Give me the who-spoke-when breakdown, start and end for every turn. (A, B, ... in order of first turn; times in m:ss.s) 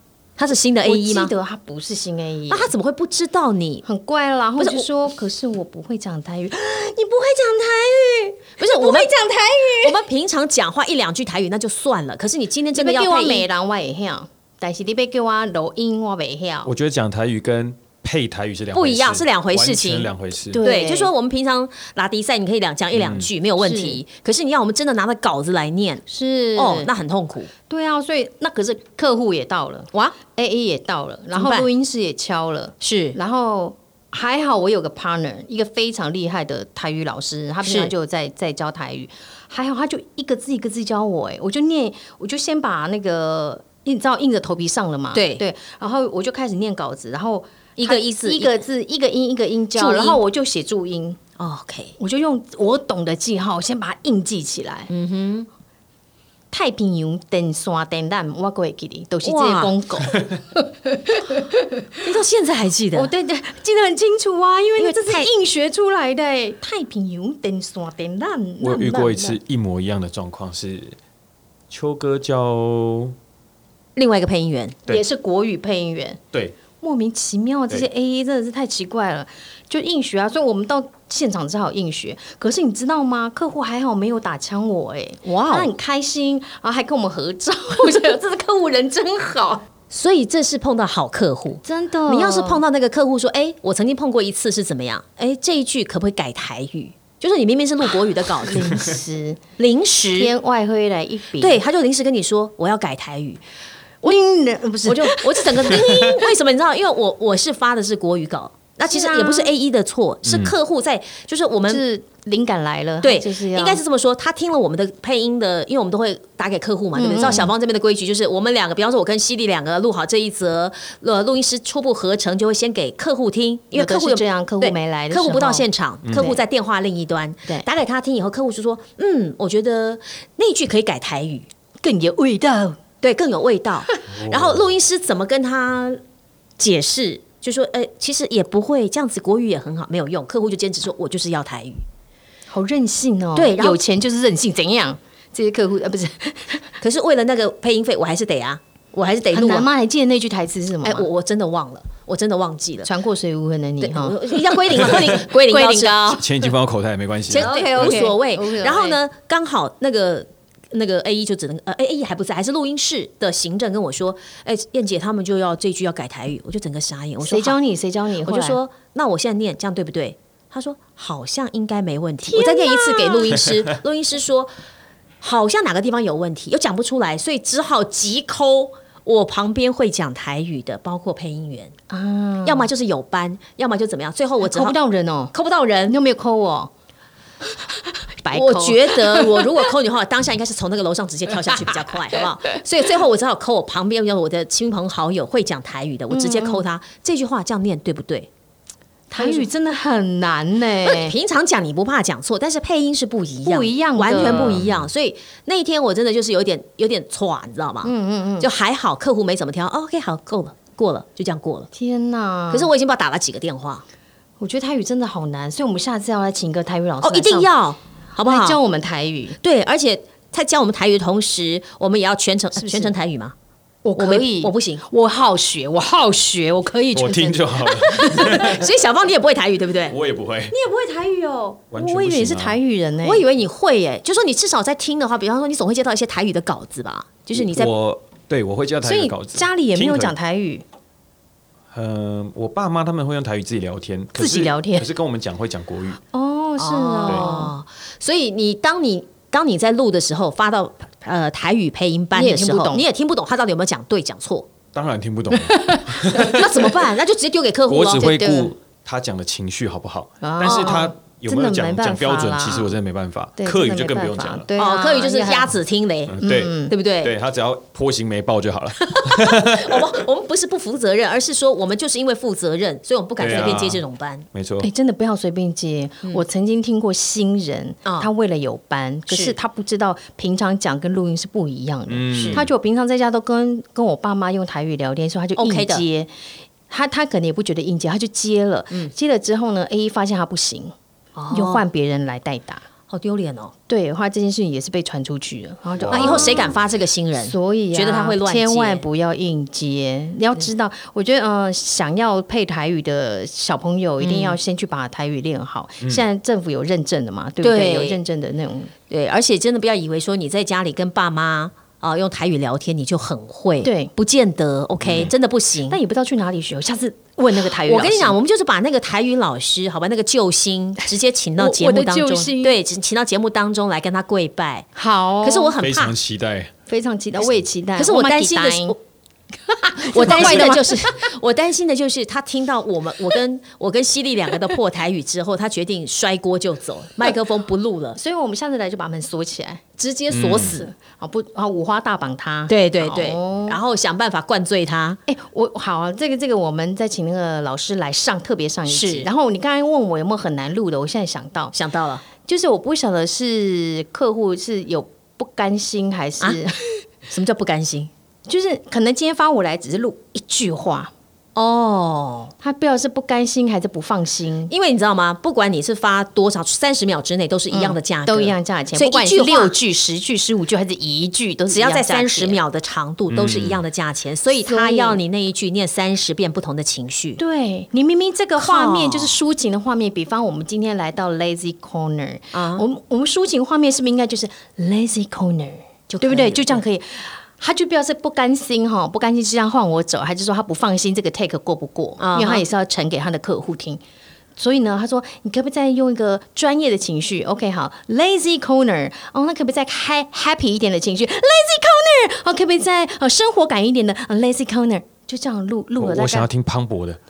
0:00.4-0:01.3 A
0:00.8-0:02.7 B
0:02.5-0:03.8 A
0:03.8-0:10.0 B
0:04.6-0:04.9 A
0:08.6-0:09.1 A
0:09.8-0:13.4 A
0:12.7-0:16.7 B
0:16.6-0:20.6 C
0:18.7-0:26.0 A
0:20.5-0:21.1 B
0:22.9-0:23.3 C
0:23.6-0:24.0 B
0:26.1-0:26.9 B
0:26.6-0:27.5 A
0:27.7-0:51.2 B
0:31.3-0:31.7 A
0:32.8-0:33.2 A
0:37.6-0:37.9 A
0:45.1-0:45.4 A
0:47.8-0:48.6 A
0:49.7-0:50.2 A
0:51.4-0:51.9 A
0:52.0-0:54.9 B
0:54.9-0:55.5 A
0:56.5-1:02.0 B
0:59.2-0:59.7 A
1:02.0-1:03.1 A
1:02.9-1:09.4 B
1:04.8-1:05.3 A
1:08.6-1:11.0 C
1:11.7-1:13.1 C
1:14.0-1:14.8 A
1:14.9-1:16.2 B
1:16.8-1:29.6 B
1:25.2-1:25.7 A
1:29.9-1:38.8 A
1:31.6-1:32.6 B
1:38.4-1:39.4 B
1:39.6-1:40.3 A
1:40.2-1:41.6 B
1:41.4-1:43.4 A
1:44.0-1:46.2 B
1:44.8-1:51.8 A
1:48.9-1:49.5 B
1:50.3-1:50.5 C
1:51.7-1:53.8 B
1:53.0-2:11.5 A
1:56.9-1:57.5 B
2:03.7-2:06.4 B
2:11.8-2:12.8 B
2:13.0-2:16.0 A
2:14.1-2:14.7 C
2:16.6-2:21.8 A
2:22.5-2:26.7 B
2:23.3-2:23.8 A
2:26.8-2:29.7 A
2:29.3-2:31.1 B
2:30.8-2:32.9 A
2:32.8-2:36.2 B
2:33.8-2:36.2 A
2:36.2-2:38.0 C
2:37.3-2:47.6 A
2:37.3-2:39.0 B
2:47.2-2:48.6 B
2:48.2-2:54.5 A
2:52.2-2:53.5 B
2:55.2-3:01.7 A
3:01.9-3:02.7 B
3:02.4-3:04.8 A
3:04.4-3:05.3 B
3:05.3-3:05.9 A
3:05.9-3:06.7 B
3:07.6-3:09.6 B
3:08.3-3:18.3 A
3:11.5-3:12.5 B
3:16.1-3:16.6 B
3:19.1-3:21.1 B
3:19.2-3:19.5 A
3:20.8-3:31.7 A
3:23.4-3:24.6 B
3:24.1-3:24.9 C
3:27.8-3:28.5 B
3:31.7-3:32.7 B
3:32.5-3:33.8 A
3:34.4-3:37.5 B
3:37.0-3:38.6 A
3:38.2-3:39.4 B
3:39.4-3:43.3 A
3:42.6-3:42.9 B
3:43.8-3:48.6 B
3:44.0-3:44.8 A
3:46.9-3:48.7 C
3:47.9-3:50.0 A
3:49.9-3:50.6 C
3:50.5-3:53.3 B
3:51.7-3:52.6 C
3:53.0-3:57.7 A
3:57.3-4:00.2 C
3:58.8-4:00.6 B
4:01.7-4:06.0 C
4:04.2-4:04.9 B
4:06.1-4:07.5 B
4:06.6-4:14.5 A
4:12.1-4:12.8 B
4:14.7-4:16.5 C
4:15.4-4:16.8 B
4:16.0-4:18.3 A
4:17.7-4:24.5 C
4:18.0-4:18.5 B
4:20.2-4:22.7 B
4:20.4-4:20.8 A
4:23.4-4:25.5 B
4:24.6-4:27.1 A
4:26.1-4:30.0 C
4:26.2-4:26.7 B
4:28.8-4:34.2 A
4:33.2-4:33.8 C
4:34.3-4:34.7 C
4:34.6-4:46.1 B
4:37.8-4:38.1 A
4:39.1-4:39.4 A
4:41.9-4:42.5 C
4:42.1-4:42.4 A
4:45.4-4:45.8 A
4:46.7-4:50.7 B
4:51.2-4:51.6 A
4:51.3-4:52.6 B
4:52.9-4:53.5 A
4:53.7-4:56.6 B
4:55.8-4:56.5 C
4:55.9-4:58.8 A
4:57.2-5:08.7 B
5:04.0-5:04.4 A
5:07.4-5:08.0 A
5:08.9-5:15.8 A
5:13.6-5:13.9 B
5:14.8-5:15.1 C
5:15.7-5:18.2 B
5:17.3-5:24.7 A
5:21.4-5:22.6 B
5:24.7-5:25.5 B
5:25.2-5:25.9 A
5:25.6-5:26.5 C
5:26.7-5:28.7 B
5:27.8-5:28.8 A
5:29.4-5:31.0 B
5:29.8-5:38.0 A
5:38.0-5:39.6 B
5:39.8-5:40.7 A
5:40.1-5:40.5 C
5:40.3-5:43.6 B
5:42.5-5:45.0 A
5:45.1-5:56.8 B
5:48.6-5:49.1 A
5:51.5-5:52.0 A
5:57.1-5:57.9 A
5:58.3-6:00.9 B
6:01.4-6:02.3 A
6:02.4-6:04.5 B
6:04.5-6:09.5 A
6:07.5-6:12.4 B
6:11.5-6:17.2 A
6:13.1-6:13.6 C
6:14.3-6:15.0 B
6:17.2-6:33.8 B
6:18.4-6:19.2 A
6:22.3-6:22.6 A
6:25.9-6:26.6 A
6:32.0-6:32.4 A
6:34.4-6:46.3 B
6:45.8-6:47.0 C